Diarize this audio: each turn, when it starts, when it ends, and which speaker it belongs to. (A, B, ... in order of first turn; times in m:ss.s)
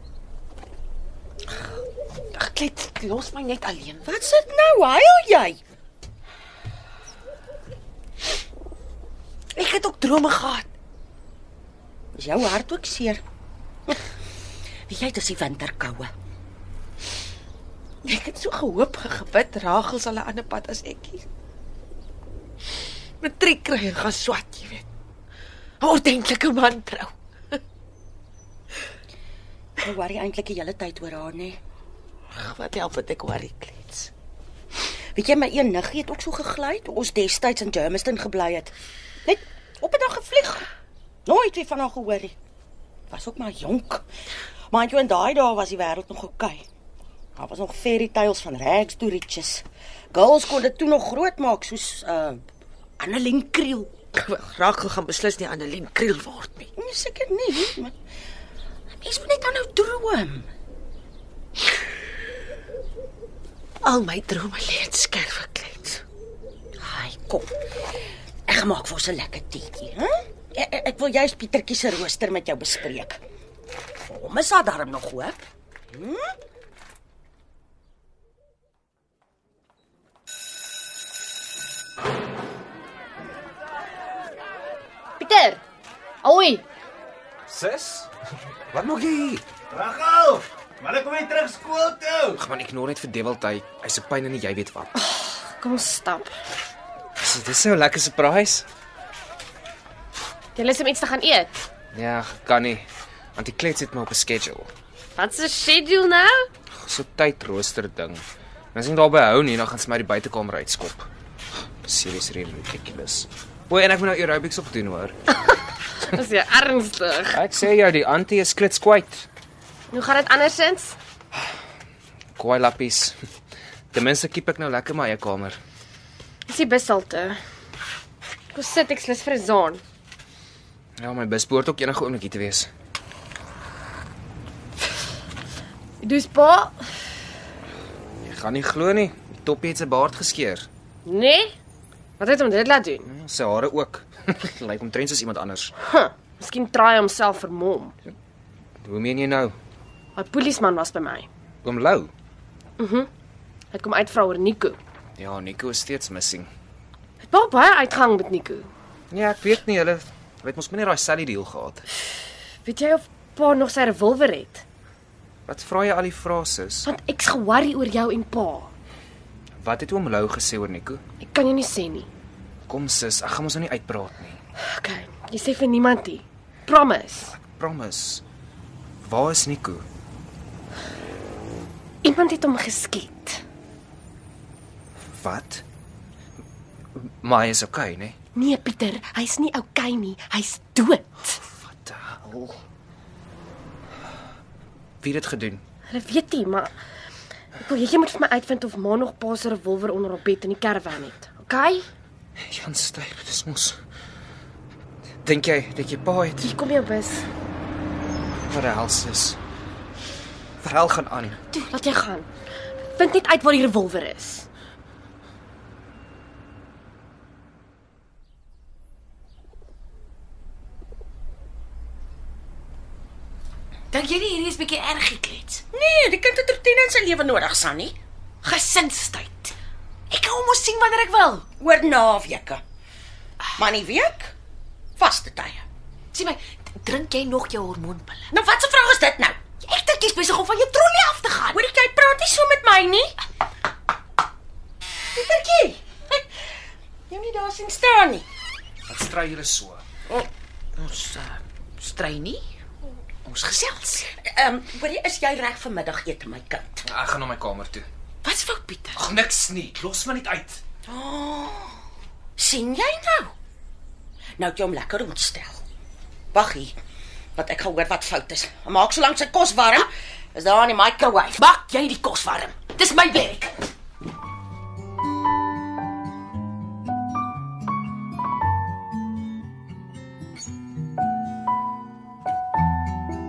0:02.3-0:04.0 A
0:04.0-0:05.6 B
0:09.6-0:10.7 A
0:12.2-0:13.2 B
0:14.9-0:16.1 B
0:18.0-0:21.2 A
0:23.2-0:24.9 A
0:25.8-0:27.6 A
0:29.8-0:31.6 B
0:32.4-0:34.1 A
0:35.2-0:38.7 B
0:39.2-0:40.7 B
0:41.3-0:42.3 B
0:43.1-0:44.0 B
0:44.7-0:46.6 B
0:47.4-0:52.4 B
0:53.0-0:53.9 B
0:54.1-0:56.7 A
0:56.8-0:57.9 B
0:58.9-1:00.5 B
1:03.8-1:06.0 A
1:06.8-1:07.5 B
1:08.5-1:13.2 B
1:14.1-1:16.2 B
1:25.2-1:25.6 C
1:26.2-1:26.6 C
1:27.5-1:28.1 D
1:28.7-1:29.4 D
1:29.7-1:32.4 E
1:32.4-1:34.9 D
1:35.0-1:36.3 C
1:37.2-1:38.7 D
1:40.6-1:41.6 C
1:41.9-1:42.8 D
1:43.4-1:44.7 D
1:45.2-1:46.5 C
1:46.8-1:51.1 D
1:51.8-1:55.2 D
1:56.0-1:57.4 C
1:57.3-1:59.3 D
1:59.9-2:01.0 C
2:02.4-2:03.2 D
2:03.9-2:05.6 D
2:06.5-2:07.4 C
2:08.5-2:09.8 C
2:11.0-2:12.7 D
2:16.0-2:17.0 C
2:18.2-2:20.7 D
2:21.0-2:21.6 C
2:22.2-2:23.1 C
2:23.1-2:25.7 D
2:25.8-2:28.0 C
2:28.8-2:29.6 D
2:30.2-2:31.3 C
2:31.6-2:32.1 D
2:32.8-2:33.1 C
2:33.7-2:34.8 C
2:35.2-2:36.5 D
2:37.2-2:38.7 C
2:39.1-2:41.8 D
2:42.6-2:44.6 C
2:45.5-2:46.9 D
2:46.8-2:48.7 C
2:49.6-2:51.0 D
2:51.2-2:52.1 C
2:52.7-2:54.4 D
2:54.7-2:57.3 C
2:57.2-2:58.2 D
2:59.0-2:59.8 D
3:02.0-3:03.4 C
3:05.1-3:05.6 D
3:07.0-3:08.2 D
3:08.4-3:11.4 C
3:11.6-3:12.6 D
3:15.0-3:15.6 D
3:15.9-3:16.7 C
3:17.6-3:21.9 C
3:22.5-3:23.8 D
3:25.2-3:26.5 D
3:26.4-3:27.3 C
3:28.4-3:29.4 D
3:30.6-3:31.4 D
3:31.5-3:32.3 C
3:32.9-3:34.5 C
3:43.9-3:45.6 A
3:45.7-3:48.0 B
3:48.4-3:49.6 A
3:50.1-3:51.4 A
3:51.6-3:52.6 B
3:53.6-3:54.3 B
3:55.0-3:55.6 B
3:56.1-3:58.3 A
3:58.3-3:59.4 B
3:59.6-4:01.6 A
4:01.5-4:03.2 B
4:05.2-4:06.2 B
4:07.1-4:08.3 B
4:08.9-4:09.8 D
4:10.8-4:12.4 A
4:13.2-4:14.1 A
4:14.2-4:16.8 B
4:16.8-4:17.8 D
4:18.2-4:19.0 A
4:19.0-4:20.6 D
4:20.9-4:21.8 B
4:22.4-4:23.3 B
4:24.4-4:25.6 B
4:26.3-4:26.8 B
4:27.4-4:31.4 B
4:31.4-4:33.7 A